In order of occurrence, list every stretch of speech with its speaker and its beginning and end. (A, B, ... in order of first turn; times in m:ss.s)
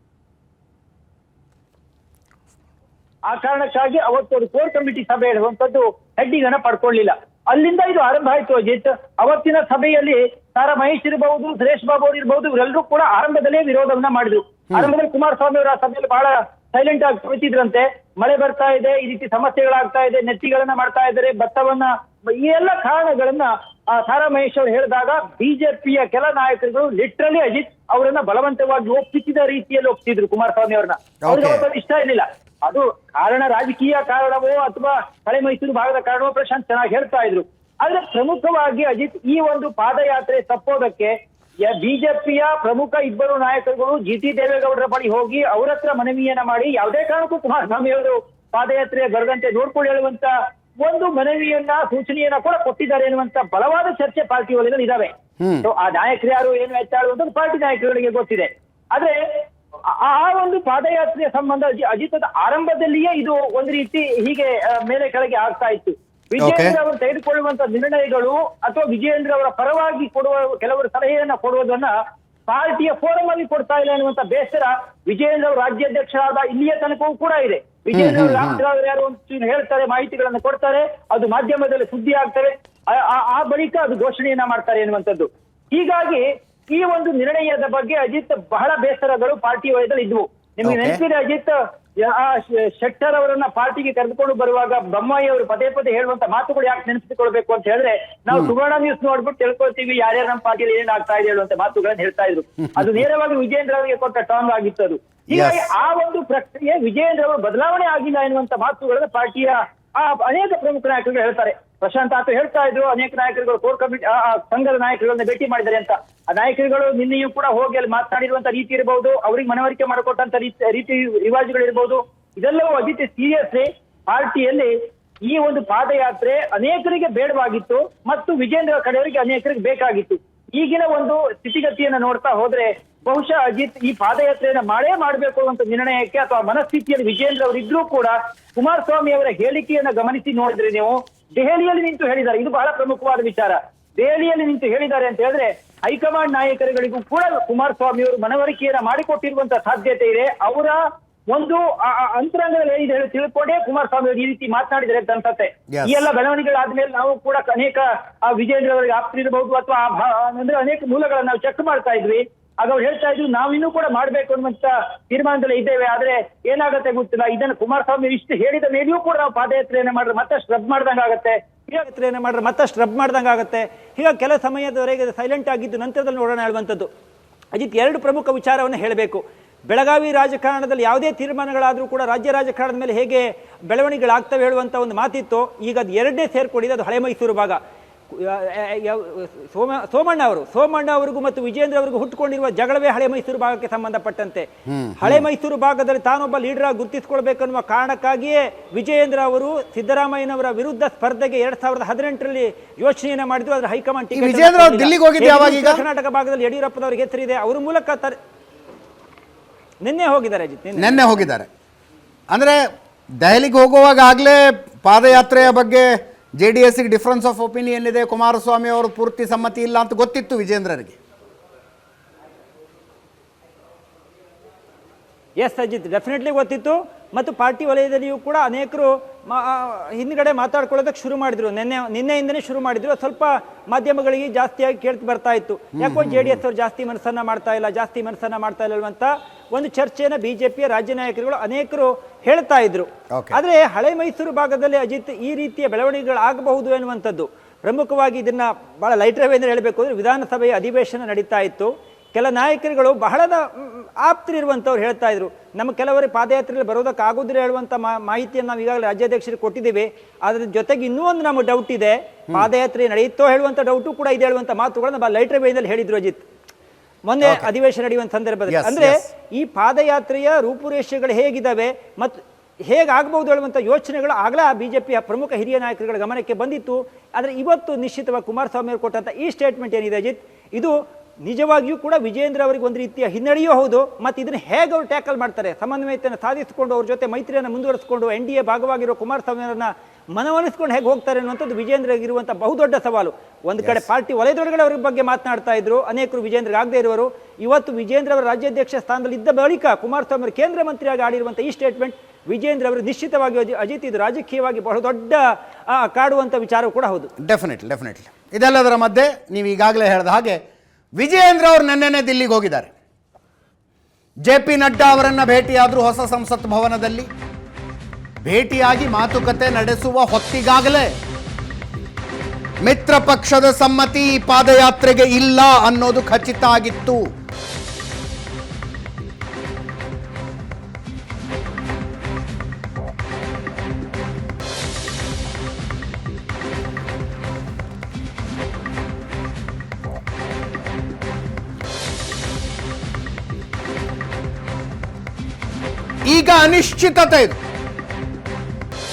0:03.3-0:55.1 A
0:31.2-0:31.6 B
0:55.4-0:55.7 B
0:55.6-0:59.4 A
0:59.9-1:11.9 A
1:06.4-1:06.8 B
1:12.5-2:04.7 A
1:17.9-1:18.6 B
1:30.6-1:31.0 B
1:45.3-1:45.7 B
2:05.3-2:51.8 A
2:35.7-2:36.1 B
2:51.8-2:56.9 C
2:57.5-3:07.6 C
3:08.1-3:14.5 C
3:14.7-3:15.2 B
3:15.0-3:28.2 C
3:24.1-3:25.8 B
3:29.8-3:31.0 C
3:30.8-3:31.5 B
3:32.3-3:32.6 B
3:33.2-3:41.0 B
3:45.4-4:26.2 C
3:55.8-3:56.4 B
4:03.1-4:03.4 B
4:27.1-5:07.1 C
4:27.2-4:27.5 B
4:28.5-4:29.1 B
4:53.6-4:53.9 B
5:07.2-5:10.4 B
5:11.0-5:12.7 B
5:14.2-5:17.1 B
5:18.2-5:20.9 B
5:22.6-5:27.0 B
5:46.1-5:47.4 B